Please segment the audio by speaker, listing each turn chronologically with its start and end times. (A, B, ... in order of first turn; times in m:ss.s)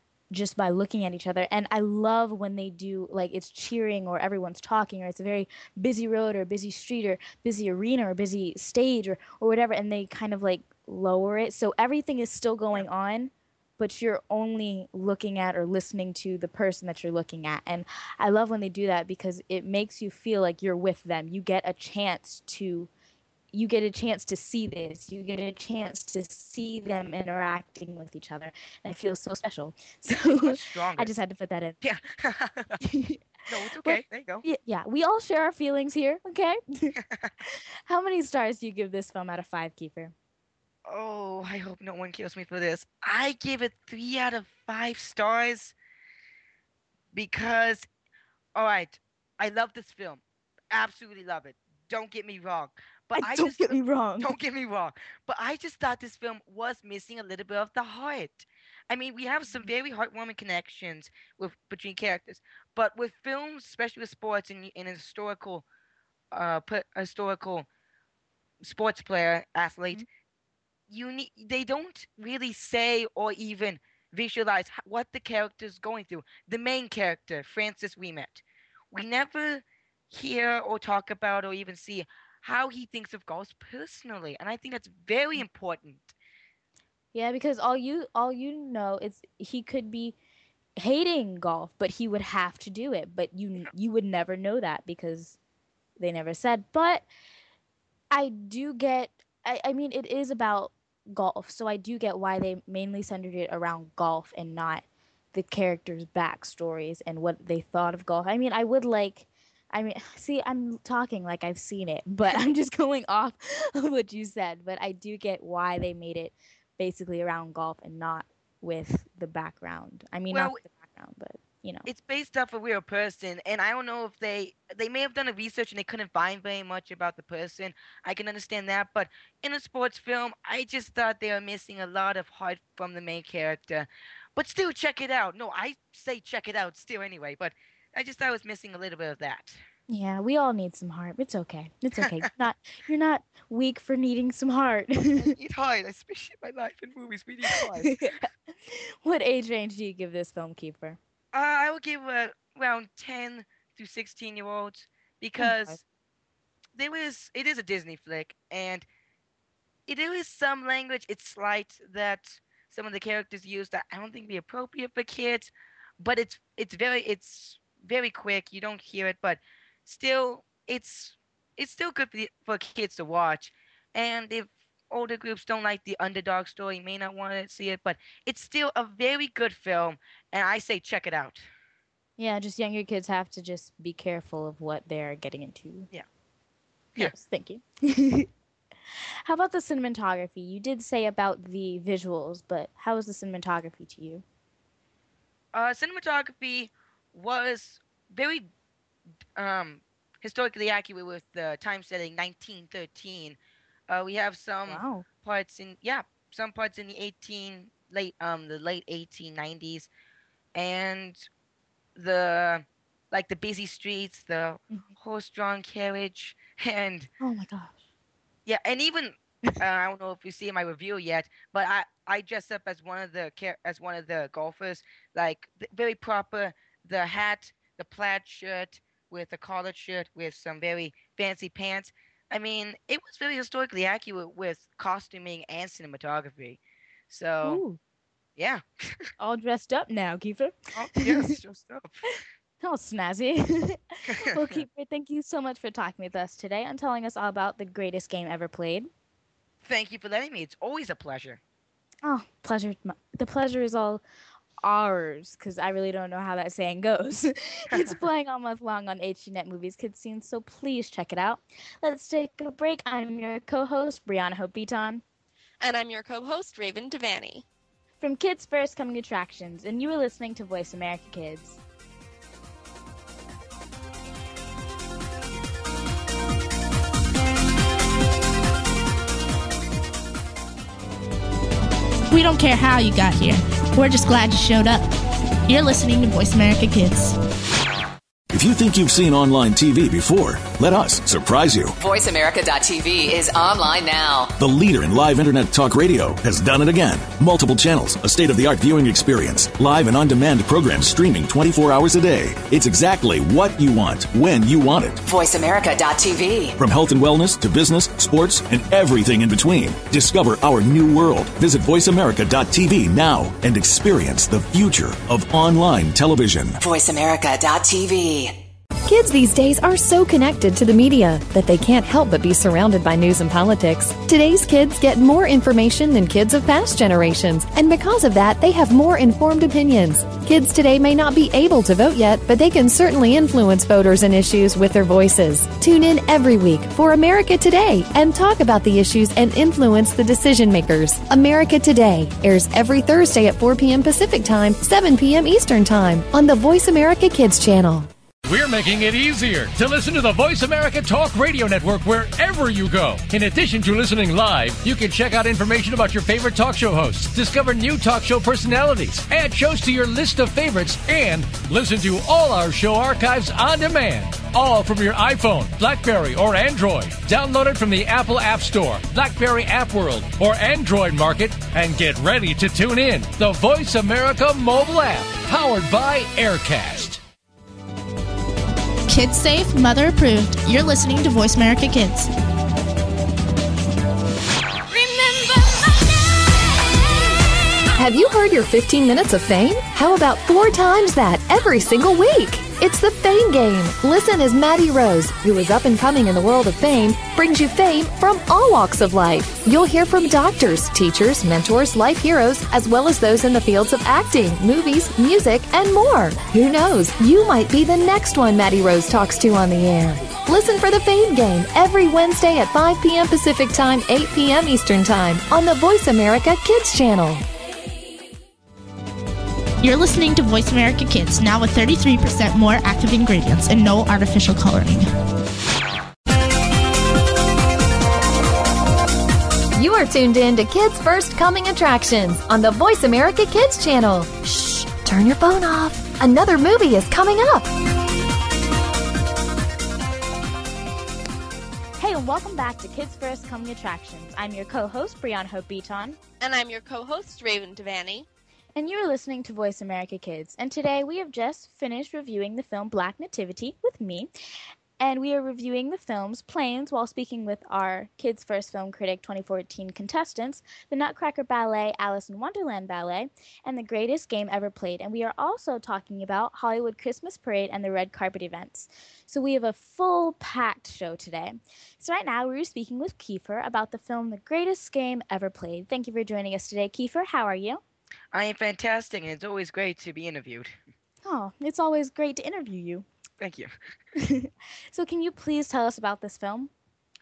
0:00.3-0:22.9 A
0:23.5-0:31.8 A
0:30.4-0:31.1 B
0:31.8-0:32.8 B
0:32.8-0:33.2 A
0:33.5-0:34.4 B
0:33.8-0:40.1 A
0:37.0-0:37.3 B
0:40.9-0:45.7 B
0:47.1-0:47.9 B
0:48.6-1:05.6 B
0:53.2-0:54.3 A
1:06.3-1:07.7 B
1:08.6-1:10.0 B
1:10.9-1:26.2 B
1:27.1-1:30.2 A
1:30.8-1:35.4 A
1:36.0-1:37.1 A
1:38.1-2:01.9 A
2:00.3-2:00.6 B
2:01.9-2:19.6 B
2:19.9-2:25.3 A
2:25.2-2:28.1 B
2:27.6-2:31.0 A
2:31.3-2:35.8 B
2:35.4-2:35.8 A
2:36.8-2:38.9 B
2:39.9-3:01.5 B
3:02.2-3:05.9 A
3:07.0-3:08.3 A
3:09.3-3:14.2 A
3:15.5-3:18.5 B
3:19.4-3:23.4 B
3:23.9-3:29.9 B
3:24.7-3:25.0 A
3:30.6-3:31.2 B
3:32.0-3:37.1 B
3:37.2-3:37.8 A
3:38.5-3:57.6 B
3:57.4-3:57.8 A
3:58.4-3:59.1 B
3:59.2-4:01.3 A
4:00.8-4:02.0 B
4:02.6-4:08.9 A
4:04.1-4:04.6 B
4:09.6-4:11.4 B
4:12.0-4:14.0 A
4:14.6-4:25.0 A
4:25.6-4:27.4 C
4:28.0-4:31.6 A
4:42.1-4:44.9 D
4:45.5-4:47.2 D
4:48.3-4:51.7 E
4:51.8-4:54.4 F
4:54.4-5:05.0 E
5:05.0-5:06.6 F
5:06.6-5:16.6 E
5:16.6-5:18.5 F
5:18.8-5:47.9 G
5:48.3-6:17.0 H
6:18.9-6:22.1 D
6:27.8-6:57.2 G
6:59.6-7:04.9 D
7:09.6-7:17.5 G
7:21.8-7:26.0 A
7:26.2-7:28.1 C
7:28.6-7:34.1 A
7:34.8-7:57.6 A
7:58.1-8:00.6 B
8:01.0-8:02.9 A
8:03.2-8:03.5 B
8:04.0-8:06.5 A